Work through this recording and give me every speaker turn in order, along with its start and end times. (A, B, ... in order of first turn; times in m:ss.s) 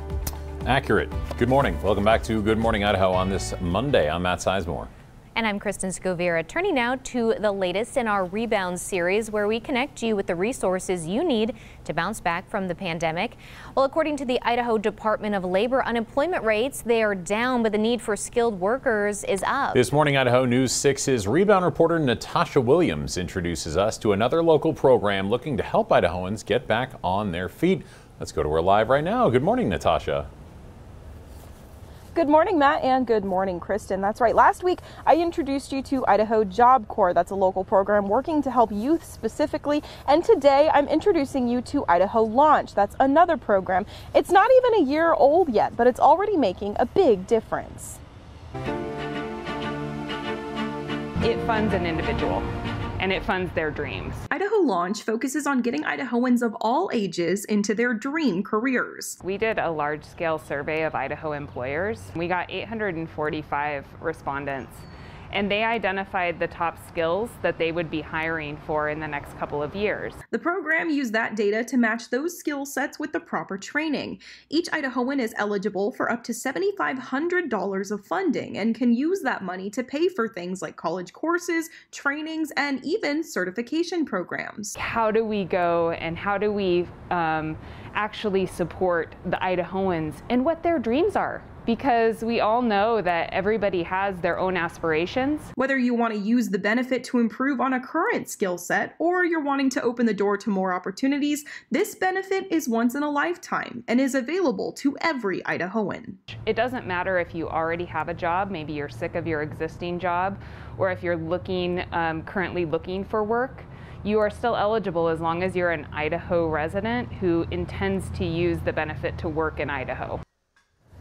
0:00.6-0:04.9 A
0:05.3-0:19.8 B
0:19.7-0:30.3 A
0:32.1-0:48.0 C
0:51.2-0:52.5 D
0:53.0-0:54.2 D
0:54.3-0:59.2 C
0:59.2-1:10.2 D
1:10.3-1:24.7 C
1:24.8-1:35.5 D
1:35.6-1:46.2 C
1:46.3-2:00.2 D